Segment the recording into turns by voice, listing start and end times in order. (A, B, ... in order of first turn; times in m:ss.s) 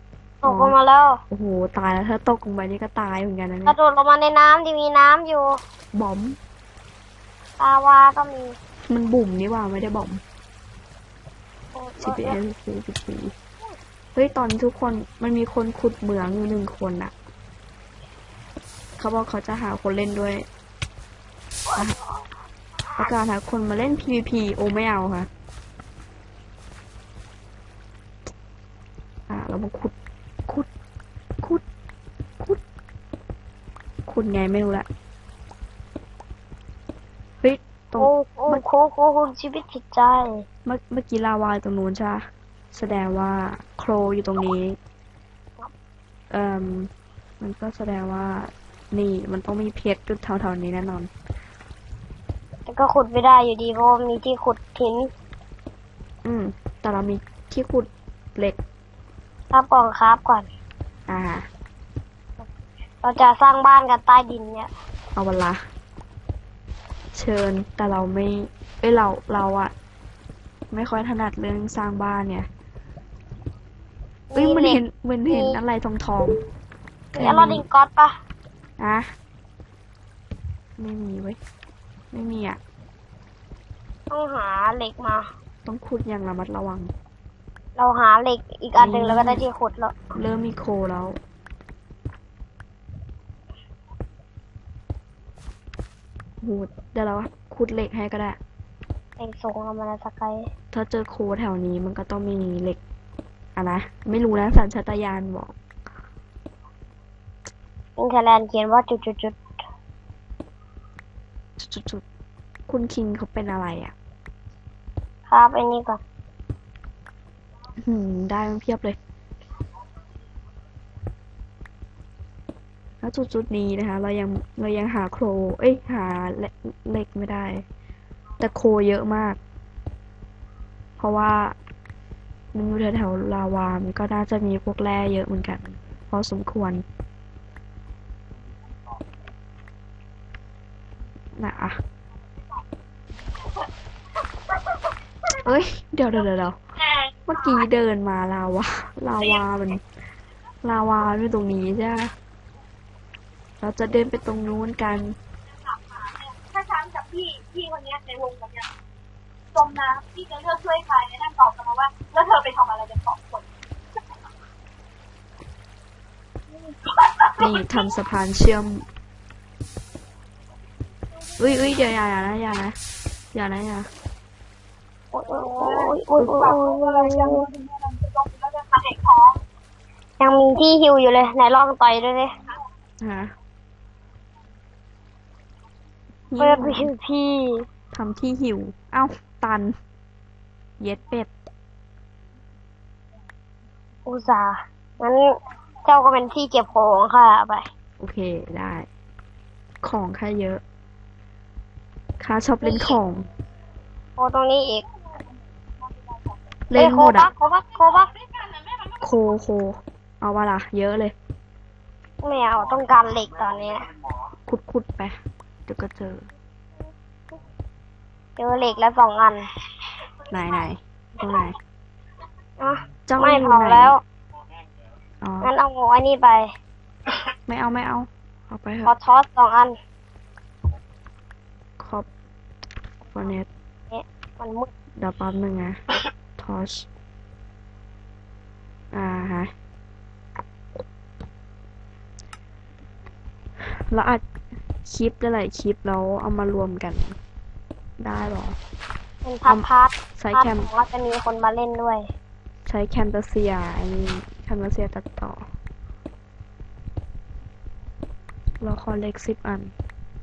0:00.4-0:01.2 A
0:00.4-0:00.7 B
0:01.3-0:03.8 B
0:03.6-0:05.6 A
0:05.9-0:06.4 B
0:07.6-0:08.6 A
0:08.9-0:10.2 B
0:11.7-0:12.4 A
0:12.0-0:13.3 B
0:14.1-0:17.1 B
0:19.0-0:20.5 B
0:23.0-0:25.3 B
0:29.3-0:29.9 B
0:34.1-0:34.9 B
0:37.4-0:38.6 B
0:38.0-0:40.4 A
0:40.6-0:44.8 B
0:46.3-0:51.1 B
0:52.7-0:55.1 A
0:56.2-0:58.6 B
0:59.5-1:00.5 A
1:01.1-1:01.5 B
1:03.0-1:04.7 A
1:05.1-1:05.6 B
1:07.1-1:09.7 B
1:10.7-1:12.5 B
1:14.3-1:15.6 A
1:14.3-1:16.4 B
1:17.1-1:17.6 B
1:17.1-1:18.1 A
1:18.8-1:19.1 B
1:20.8-1:21.4 B
1:22.1-1:22.6 B
1:24.1-1:25.3 A
1:25.6-1:26.9 B
1:27.8-1:29.9 A
1:28.8-1:29.4 B
1:30.1-1:31.2 B
1:36.4-1:38.4 B
1:39.2-1:40.5 A
1:40.7-1:42.8 B
1:43.6-1:45.6 B
1:48.0-1:49.4 A
1:51.6-1:52.0 B
1:52.7-1:53.9 B
1:55.3-1:56.0 A
1:57.8-1:59.0 B
2:03.0-2:07.6 B
2:08.4-2:09.4 B
2:11.0-2:11.6 B
2:12.5-2:16.8 B
2:21.4-2:21.8 B
2:25.4-2:26.6 B
2:27.2-2:29.8 B
2:30.6-2:32.1 B
2:33.6-2:35.2 B
2:35.6-2:38.7 C
2:39.5-2:43.5 C
2:47.1-2:47.6 C
2:47.4-2:48.9 B
2:51.4-2:52.8 B
2:53.3-2:53.9 B
2:55.1-2:57.4 A
2:55.5-2:59.4 C
3:00.2-3:02.3 A
3:03.0-3:03.3 B
3:06.3-3:06.9 B
3:06.4-3:07.6 A
3:07.9-3:09.7 B
3:10.8-3:11.3 B
3:14.1-3:15.3 A
3:15.8-3:17.7 A
3:18.0-3:18.9 B
3:19.8-3:20.6 B
3:22.2-3:23.3 B
3:22.6-3:22.9 A
3:24.2-3:24.8 A
3:26.7-3:27.3 B
3:26.8-3:28.1 A
3:29.0-3:31.1 B
3:32.2-3:33.9 A
3:34.5-3:36.3 B
3:38.4-3:39.5 A
3:40.3-3:41.6 B
3:42.6-3:44.0 A
3:43.1-3:44.0 B
3:45.2-3:45.5 B
3:45.4-3:46.5 A
3:47.5-3:48.9 B
3:48.8-3:49.8 A
3:51.8-3:52.1 B
3:53.1-3:53.5 B
3:53.9-3:54.7 A
3:55.0-3:55.8 B
3:56.4-3:56.9 B
3:58.9-3:59.5 B
4:03.6-4:04.2 B
4:04.8-4:07.2 B
4:08.0-4:08.6 B
4:09.2-4:12.0 A
4:10.2-4:10.7 B
4:12.6-4:15.4 B
4:18.6-4:19.7 B